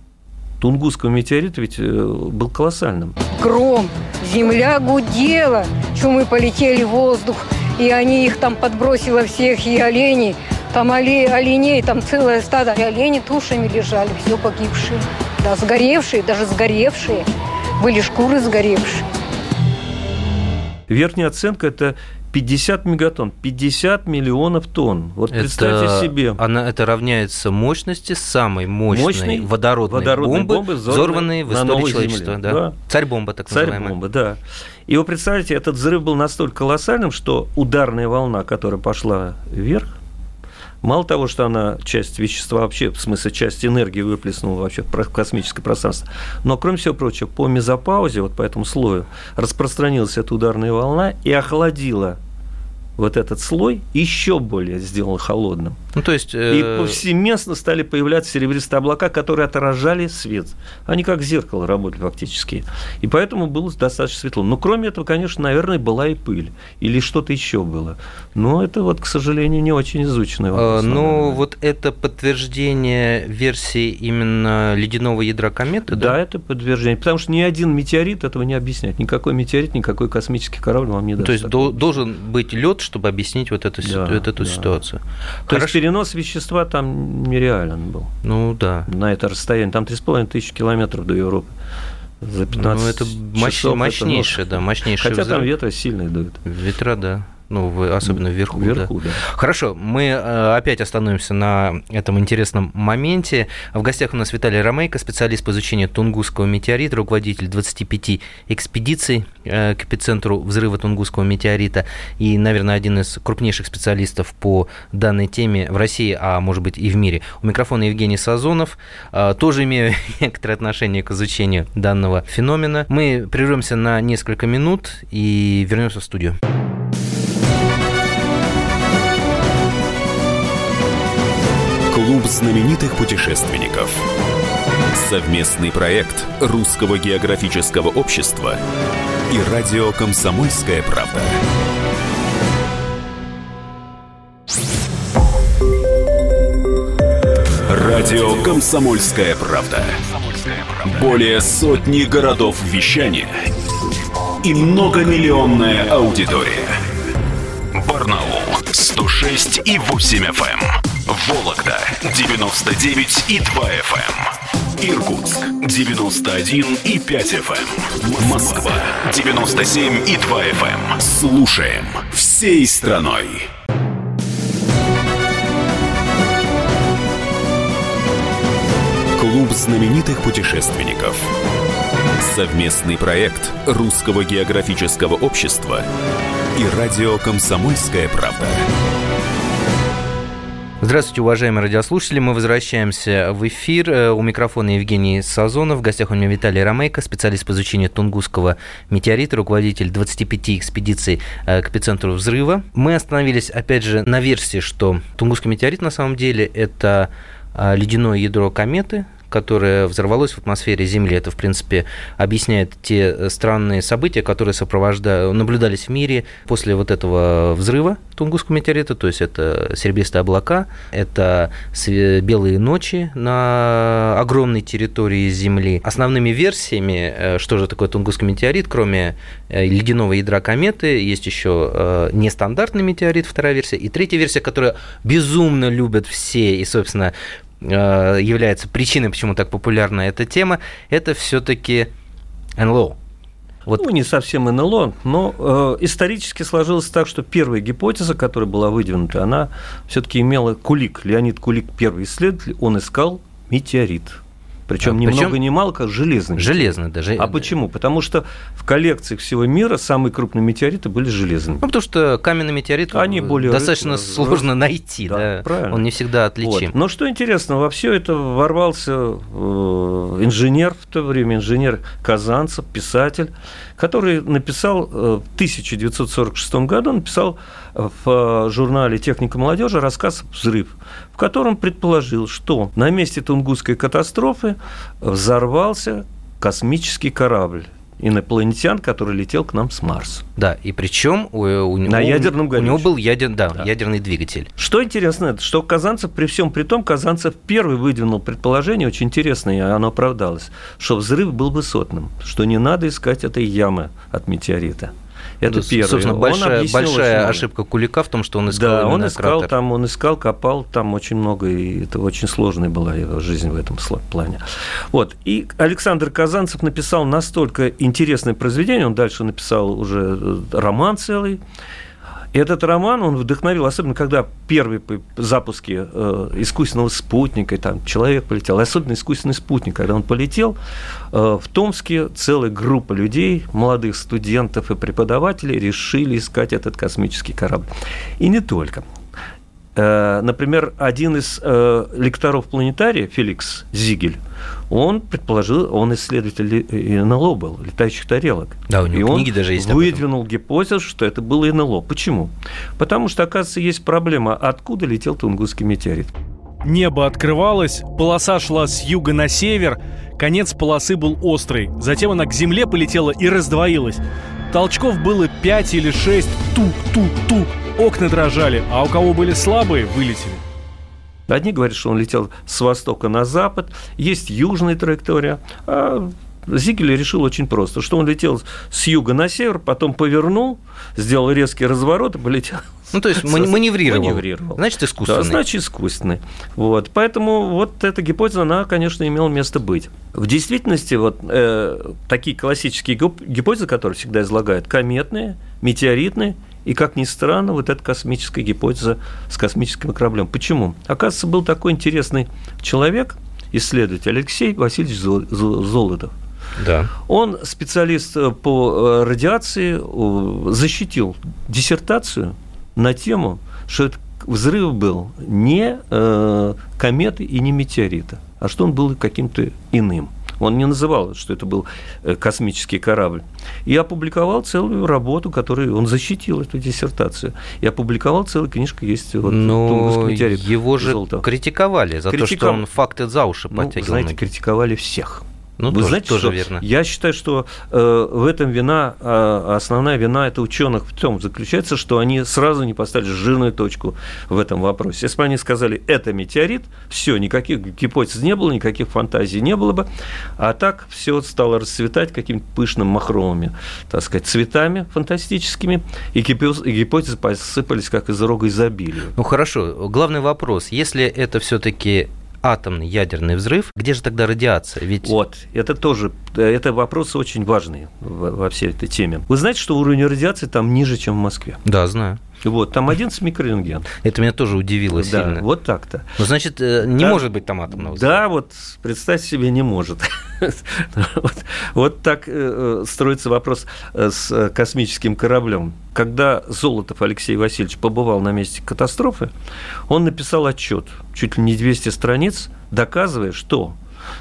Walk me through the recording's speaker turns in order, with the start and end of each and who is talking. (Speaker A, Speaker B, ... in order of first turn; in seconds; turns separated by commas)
Speaker A: 0.6-3.2, Speaker B: 3.3-17.2, Speaker B: 17.8-19.1, Speaker A: 20.9-26.4, Speaker C: 25.3-33.9, Speaker A: 28.9-32.8, Speaker A: 33.5-40.0, Speaker A: 40.8-52.2, Speaker A: 53.0-55.8, Speaker C: 55.9-57.0, Speaker A: 56.5-71.4, Speaker C: 70.5-76.2, Speaker A: 75.9-82.0, Speaker C: 81.2-85.8, Speaker A: 83.8-84.8, Speaker A: 85.5-88.1, Speaker C: 88.2-88.9, Speaker A: 88.9-91.5, Speaker A: 92.2-96.4, Speaker C: 92.5-95.5, Speaker C: 96.4-126.3, Speaker A: 98.0-99.2, Speaker D: 131.9-134.1, Speaker D: 134.9-138.6, Speaker D: 139.3-141.4, Speaker D: 147.7-153.5, Speaker D: 154.4-156.8, Speaker D: 157.7-173.5, Speaker D: 179.2-181.3, Speaker D: 182.2-185.8, Speaker D: 186.5-188.7, Speaker C: 190.8-241.9, Speaker C: 242.6-243.0, Speaker A: 243.7-261.6, Speaker C: 254.8-255.4, Speaker C: 256.4-257.5, Speaker C: 261.6-266.7, Speaker A: 262.9-265.9, Speaker A: 266.4-290.2, Speaker C: 290.4-294.5, Speaker A: 291.8-292.9, Speaker A: 294.6-307.5, Speaker C: 305.5-309.5, Speaker A: 308.5-321.4, Speaker A: 322.3-330.6, Speaker A: 331.1-338.9, Speaker A: 339.8-356.1, Speaker C: 348.7-350.0, Speaker E: 356.6-370.4, Speaker A: 371.3-406.1, Speaker C: 382.9-385.4, Speaker C: 406.6-406.9, Speaker A: 407.0-431.2, Speaker C: 429.2-434.2, Speaker A: 432.1-432.6, Speaker A: 433.5-459.1, Speaker C: 435.6-436.6, Speaker C: 459.1-465.1, Speaker A: 465.0-471.6, Speaker C: 471.6-472.2, Speaker A: 472.4-473.9, Speaker C: 474.0-475.4, Speaker A: 474.9-476.2, Speaker C: 476.2-478.2, Speaker A: 476.9-489.3, Speaker A: 489.9-493.8